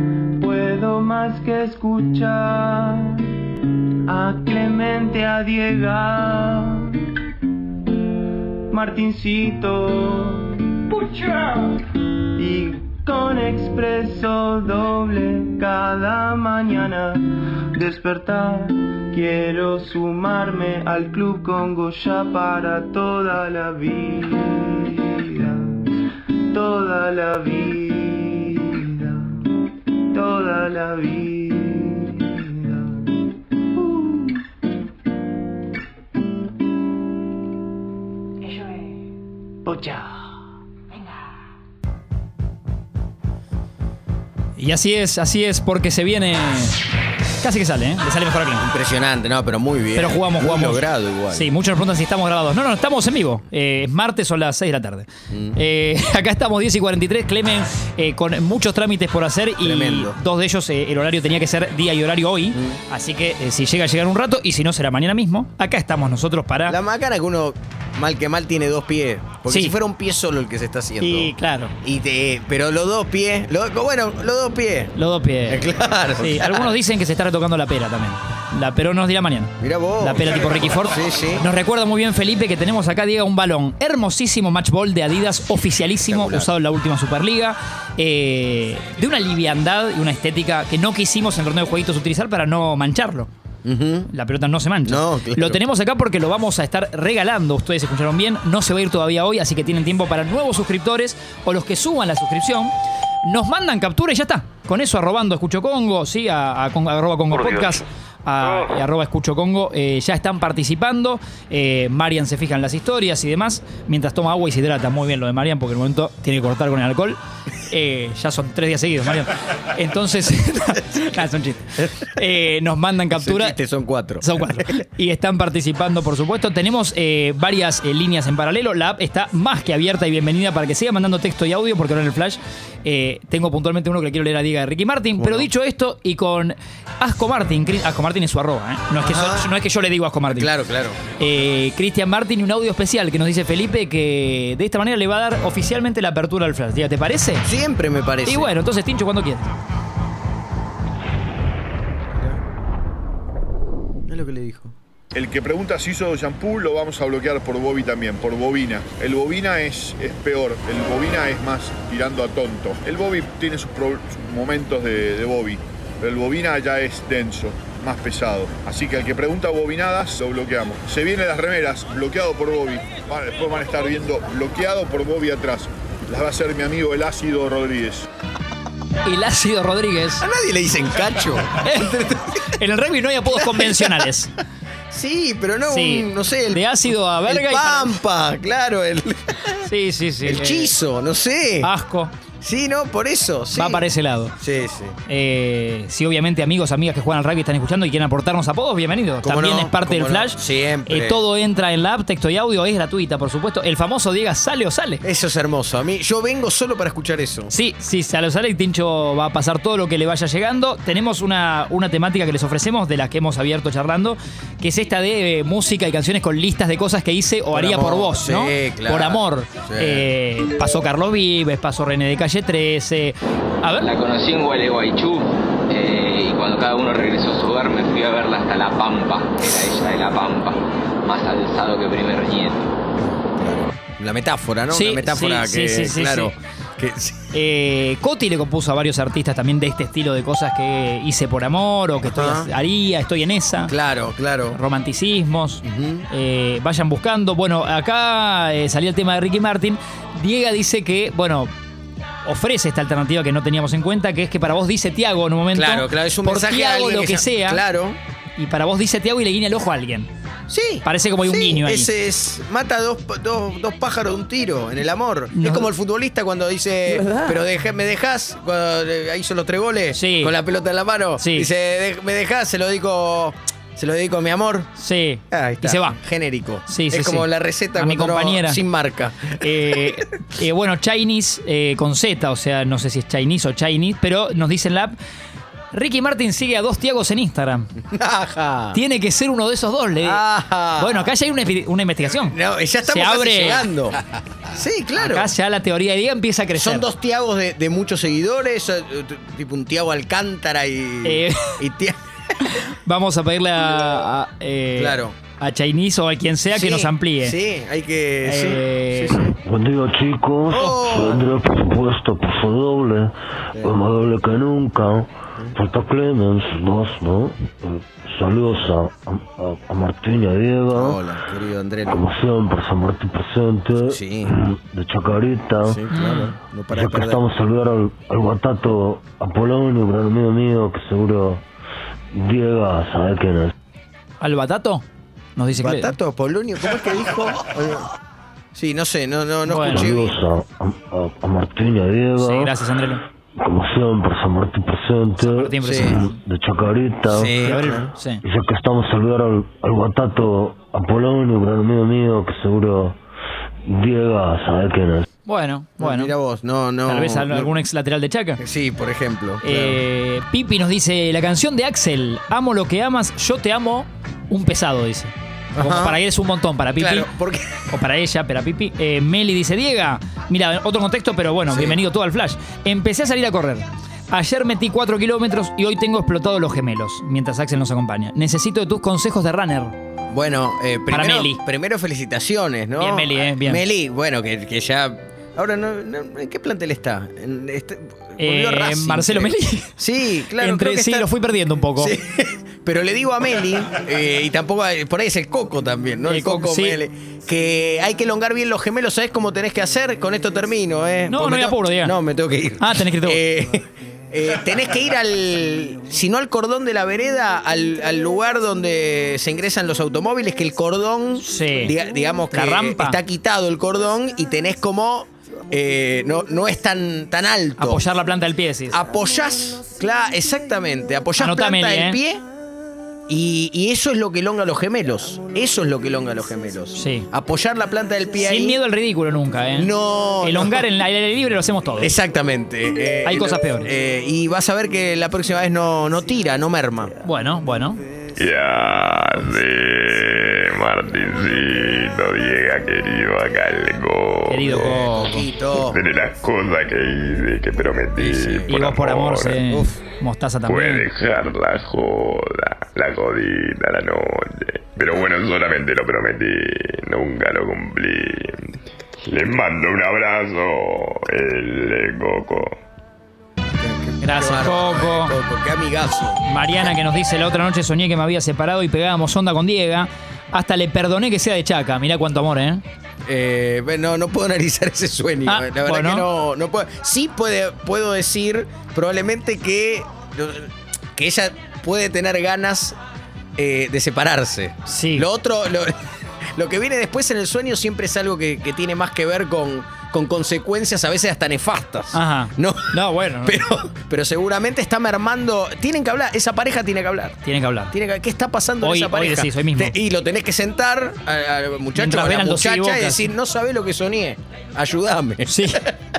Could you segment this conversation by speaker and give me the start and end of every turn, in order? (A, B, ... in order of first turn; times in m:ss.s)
0:00.4-0:03.3 A
0:04.1-0:07.0 A
0:08.7-0:11.8 A
0:12.4-0:25.9 A
0:26.5-0:29.3 A
0:30.1-0:33.1 A
0:33.8-0:34.4 A
0:39.6-0:40.1 A
0:44.6-0:46.8 B
0:47.4-0:48.6 B
0:48.6-0:51.5 C
0:50.0-1:06.8 B
0:55.3-0:55.6 C
0:59.6-1:00.2 C
1:02.5-1:02.8 C
1:06.7-1:14.9 C
1:09.5-1:09.8 B
1:11.0-1:11.7 B
1:15.0-1:15.6 B
1:15.5-1:16.8 C
1:16.2-1:33.3 B
1:19.6-1:21.4 C
1:26.0-1:26.5 C
1:33.6-1:34.1 C
1:34.1-2:03.6 B
1:34.8-1:35.6 C
2:03.2-2:04.7 C
2:04.2-2:20.5 B
2:15.2-2:15.5 C
2:19.0-2:19.5 C
2:20.3-2:21.0 C
2:21.2-2:27.5 B
2:27.4-2:28.5 C
2:28.3-2:29.4 B
2:32.1-2:32.4 C
2:34.1-2:34.7 C
2:35.1-2:58.1 D
2:59.0-3:00.2 B
3:00.2-3:02.4 C
3:01.6-3:04.3 B
3:03.4-3:04.1 C
3:04.9-3:09.6 C
3:05.7-3:08.0 B
3:09.6-3:10.7 B
3:10.2-3:11.7 C
3:11.6-3:12.1 B
3:12.4-3:13.8 C
3:13.5-3:14.4 B
3:14.4-3:15.0 C
3:15.1-3:25.0 B
3:19.2-3:21.2 C
3:25.0-3:27.5 C
3:27.5-3:43.9 B
3:37.5-3:40.1 C
3:43.8-3:52.7 E
3:53.0-3:57.3 C
3:54.7-3:56.4 B
3:57.3-4:03.7 B
4:02.0-4:02.5 C
4:03.6-4:04.6 C
4:04.5-4:11.5 B
4:05.6-4:06.1 C
4:12.2-4:17.6 B
4:15.5-4:18.0 C
4:18.4-4:20.1 B
4:20.5-4:34.7 C
4:20.8-4:21.9 B
4:25.3-4:25.7 B
4:26.9-4:27.3 B
4:29.9-4:30.4 B
4:31.2-4:31.5 B
4:34.8-4:38.6 B
4:35.3-4:39.8 C
4:39.4-4:45.0 B
4:45.7-4:47.7 B
4:47.9-4:48.8 C
4:48.7-4:50.3 B
4:50.0-4:51.1 C
4:50.8-4:53.7 B
4:52.1-4:55.3 C
4:55.0-4:56.9 B
4:56.6-5:02.0 C
5:01.0-5:01.6 B
5:02.4-5:07.4 B
5:04.8-5:05.2 C
5:06.5-5:09.3 C
5:08.2-5:09.2 B
5:09.2-5:21.0 F
5:10.5-5:11.3 C
5:20.7-5:22.0 C
5:21.9-5:25.8 F
5:23.9-5:24.3 C
5:25.6-5:27.2 C
5:25.9-5:26.3 B
5:26.7-5:31.4 F
5:32.1-5:33.5 F
5:34.2-5:34.8 B
5:35.4-5:36.0 B
5:35.5-5:37.9 C
5:38.5-5:40.2 C
5:39.4-5:39.9 B
5:39.7-5:42.6 F
5:42.2-5:43.0 B
5:43.4-5:53.0 F
5:45.2-5:46.1 B
5:45.6-5:46.0 C
5:47.1-5:47.9 C
5:47.4-5:48.2 B
5:53.6-5:55.1 F
5:55.2-5:56.1 B
5:55.8-5:57.6 C
5:56.9-5:58.4 B
5:58.4-5:59.8 C
5:59.4-6:07.1 B
6:05.6-6:06.0 C
6:06.8-6:07.6 C
6:07.7-6:19.7 B
6:11.5-6:11.8 C
6:20.1-6:31.1 C
6:20.9-6:21.4 B
6:22.8-6:23.6 B
6:28.2-6:29.8 B
6:30.3-6:31.9 B
6:31.8-6:57.8 C
6:36.1-6:36.8 B
6:41.1-6:42.0 B
6:42.6-6:43.2 B
6:51.2-6:51.7 B
6:52.3-6:53.0 B
6:57.6-6:58.8 B
6:58.7-7:02.2 C
7:01.2-7:02.0 B
7:03.1-7:08.6 C
7:06.8-7:07.1 B
7:08.2-7:11.9 B
7:09.6-7:10.6 C
7:11.8-7:16.9 C
7:13.0-7:13.7 B
7:17.0-7:17.8 B
7:18.2-7:24.8 G
7:24.3-7:25.3 B
7:24.5-7:25.8 C
7:25.5-7:29.5 G
7:28.0-7:28.6 C
7:28.5-7:30.9 B
7:30.5-7:42.6 G
7:43.6-7:46.2 C
7:44.0-7:45.1 B
7:46.3-7:52.6 B
7:53.1-8:02.8 C
7:55.3-7:56.1 B
8:03.4-8:05.7 C
8:04.7-8:05.1 B
8:06.4-8:17.2 C
8:11.9-8:13.4 B
8:17.2-8:17.7 B
8:17.7-8:25.6 C
8:18.6-8:19.8 B
8:21.8-8:23.1 B
8:25.3-8:25.6 B